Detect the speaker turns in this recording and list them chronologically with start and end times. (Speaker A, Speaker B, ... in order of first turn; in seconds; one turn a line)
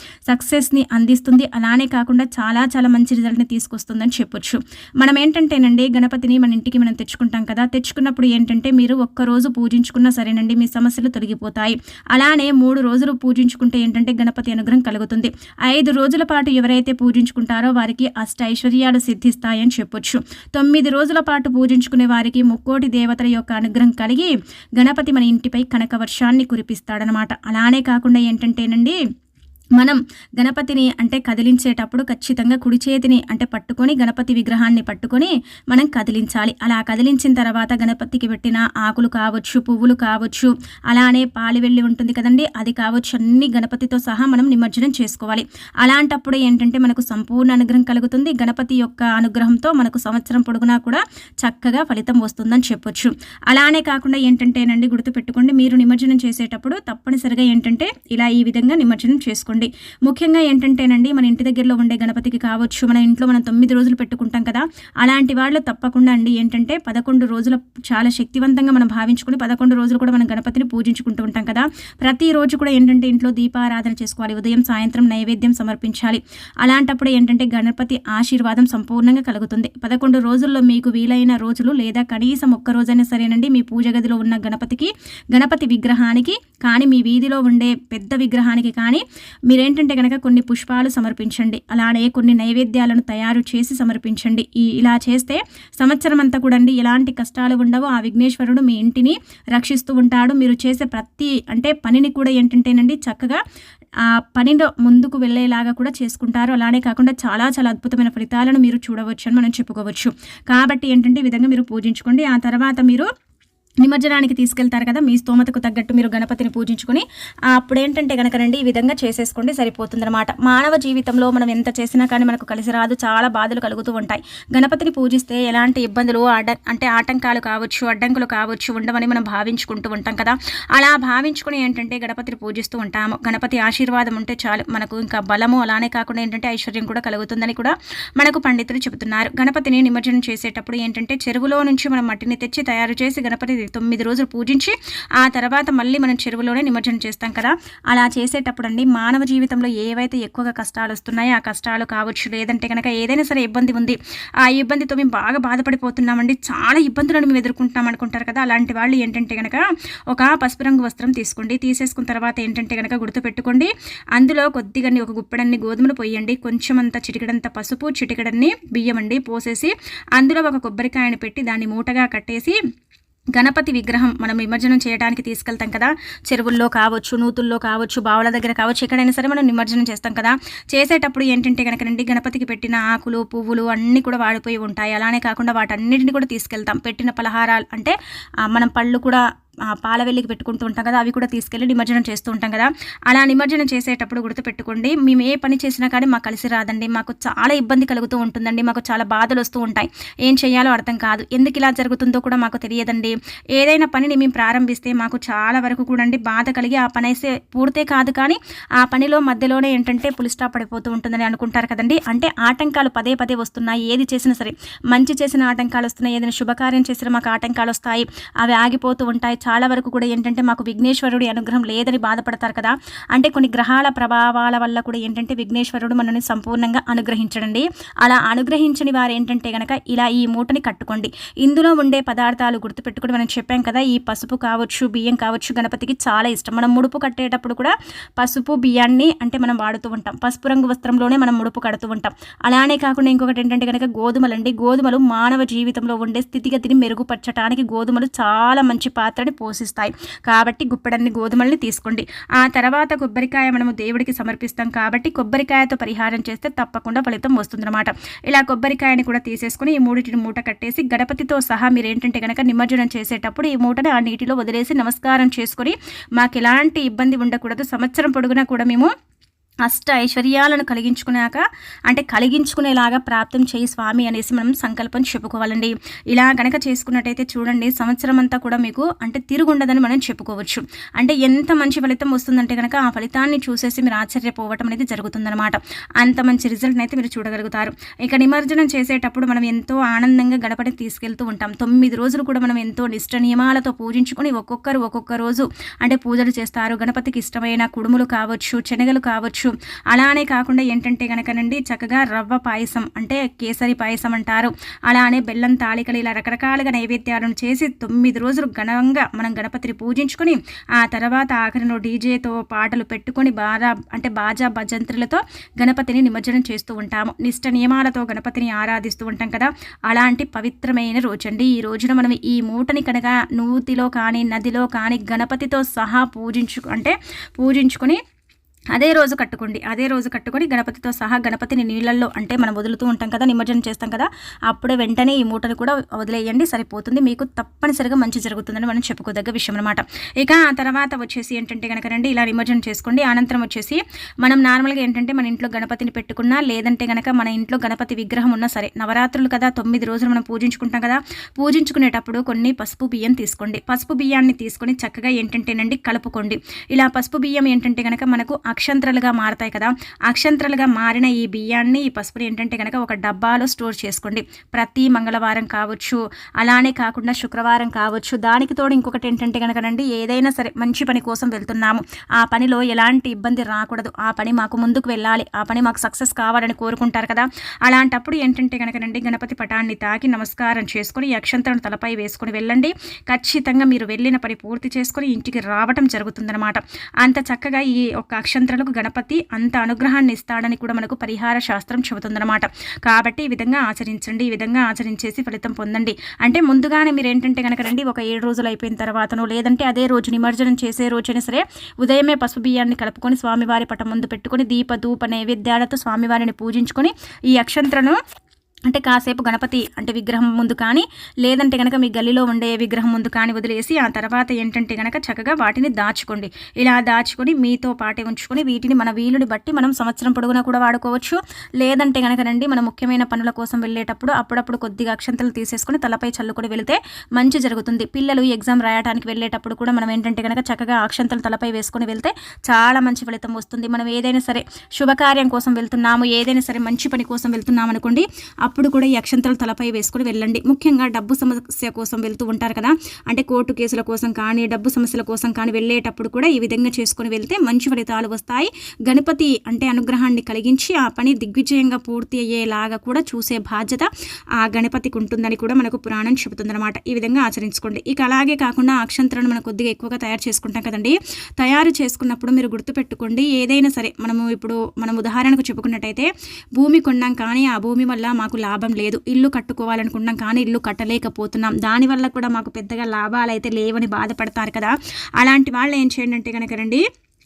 Speaker A: 0.3-29.0
Speaker A: 29.8-103.4
Speaker A: 104.1-113.1
Speaker A: 113.8-172.6
Speaker A: 173.3-187.9
Speaker A: 188.5-268.9
Speaker A: 269.7-328.0
Speaker A: 328.7-408.0
Speaker A: 408.7-476.8